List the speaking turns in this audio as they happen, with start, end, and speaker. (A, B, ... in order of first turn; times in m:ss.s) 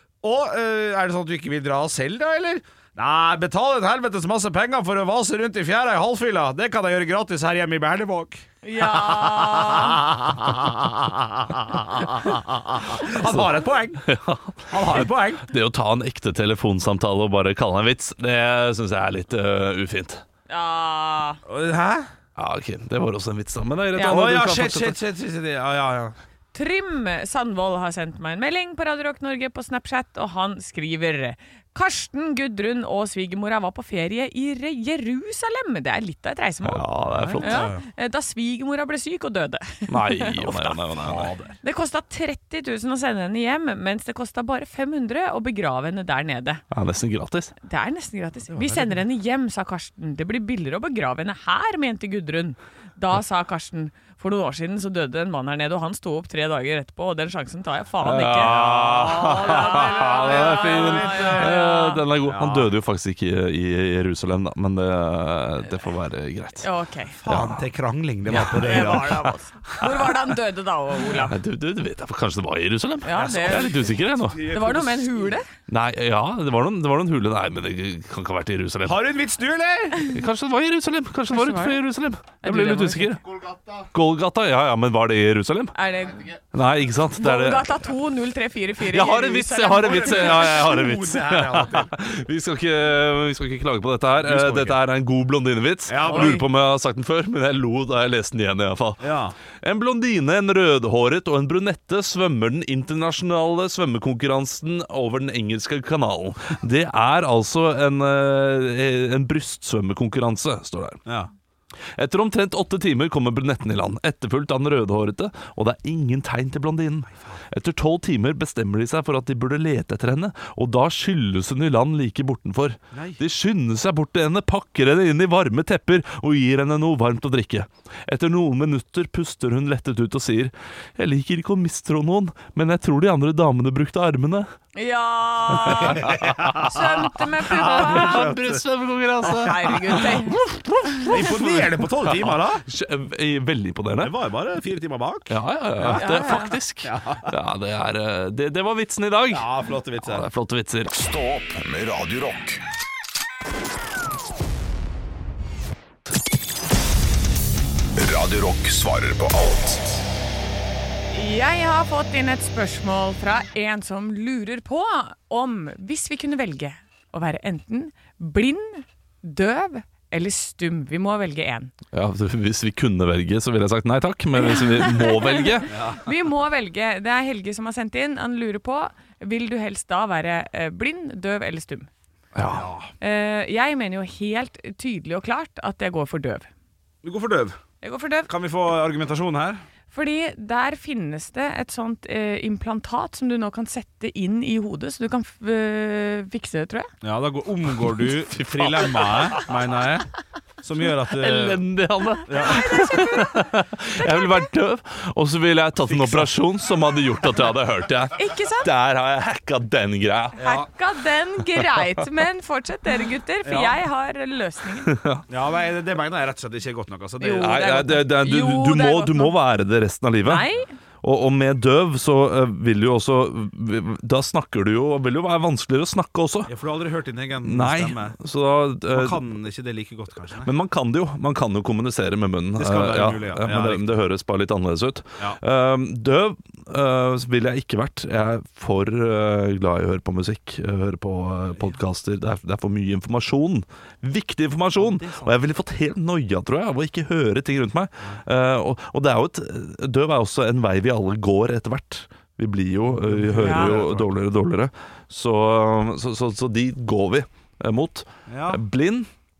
0:00.2-0:14.0 A
0:08.6-0:10.0 B
0:14.0-0:20.2 C
0:14.7-0:15.5 A
0:20.5-0:21.4 B
0:21.4-0:22.1 A
0:22.4-0:25.0 C
0:24.0-0:26.2 A
0:26.5-0:36.8 B
0:36.6-0:37.7 C
0:37.1-0:37.8 A
0:37.4-0:40.8 B
0:39.9-0:41.3 C
0:41.0-0:41.6 A
0:41.6-0:46.6 B
0:46.7-0:47.5 C
0:47.6-1:02.0 B
0:48.5-0:49.0 A
0:58.0-1:06.7 C
0:58.5-1:01.6 A
1:02.2-1:02.7 A
1:06.6-1:07.2 B
1:07.2-1:09.9 A
1:07.2-1:07.6 C
1:08.3-1:09.4 C
1:08.3-1:11.3 B
1:11.1-1:14.5 C
1:13.0-1:15.5 B
1:13.1-1:15.3 A
1:15.7-1:19.0 C
1:18.8-1:20.1 A
1:20.1-1:25.7 C
1:21.3-1:21.8 B
1:22.4-1:23.2 B
1:25.7-1:26.3 B
1:26.5-1:27.7 C
1:27.2-1:30.6 B
1:28.9-1:51.0 C
1:29.8-1:31.9 A
1:34.2-1:34.8 A
1:35.9-1:36.4 A
1:36.0-1:36.4 B
1:39.0-1:39.4 A
1:51.0-1:51.3 A
1:52.0-2:14.5 C
2:02.9-2:03.2 A
2:14.8-2:18.3 B
2:15.6-2:16.5 C
2:15.7-2:16.8 A
2:17.5-2:18.6 A
2:17.5-2:24.1 C
2:19.2-2:20.4 B
2:19.3-2:19.7 A
2:21.1-2:22.6 A
2:24.0-2:27.3 A
2:25.3-2:29.5 C
2:25.9-2:26.6 B
2:29.3-2:30.3 A
2:30.0-2:30.9 C
2:30.9-2:32.6 D
2:38.0-2:40.0 D
2:41.1-2:51.7 B
2:51.9-2:55.7 C
2:54.4-3:01.9 B
2:55.7-2:56.0 A
3:02.3-3:02.7 C
3:02.4-3:02.9 A
3:03.0-3:06.5 B
3:07.0-3:07.6 A
3:07.8-3:08.3 B
3:08.2-3:09.6 A
3:09.9-3:16.9 B
3:17.0-3:20.1 A
3:18.0-3:19.5 C
3:20.6-3:21.6 A
3:21.1-3:30.7 C
3:22.2-3:22.7 A
3:22.5-3:23.4 B
3:24.0-3:24.3 B
3:25.8-3:26.3 A
3:28.1-3:28.7 B
3:30.4-3:35.0 B
3:33.4-3:33.8 A
3:34.9-3:35.2 C
3:35.3-3:37.8 A
3:37.2-3:39.4 B
3:37.4-3:40.4 C
3:40.2-3:40.7 B
3:41.0-3:46.5 C
3:46.5-3:48.2 A
3:47.4-3:49.2 C
3:48.9-3:50.5 A
3:50.4-4:19.1 C
3:52.6-3:53.9 A
4:04.8-4:05.3 A
4:12.9-4:14.1 A
4:13.4-4:13.8 B
4:18.3-4:18.6 A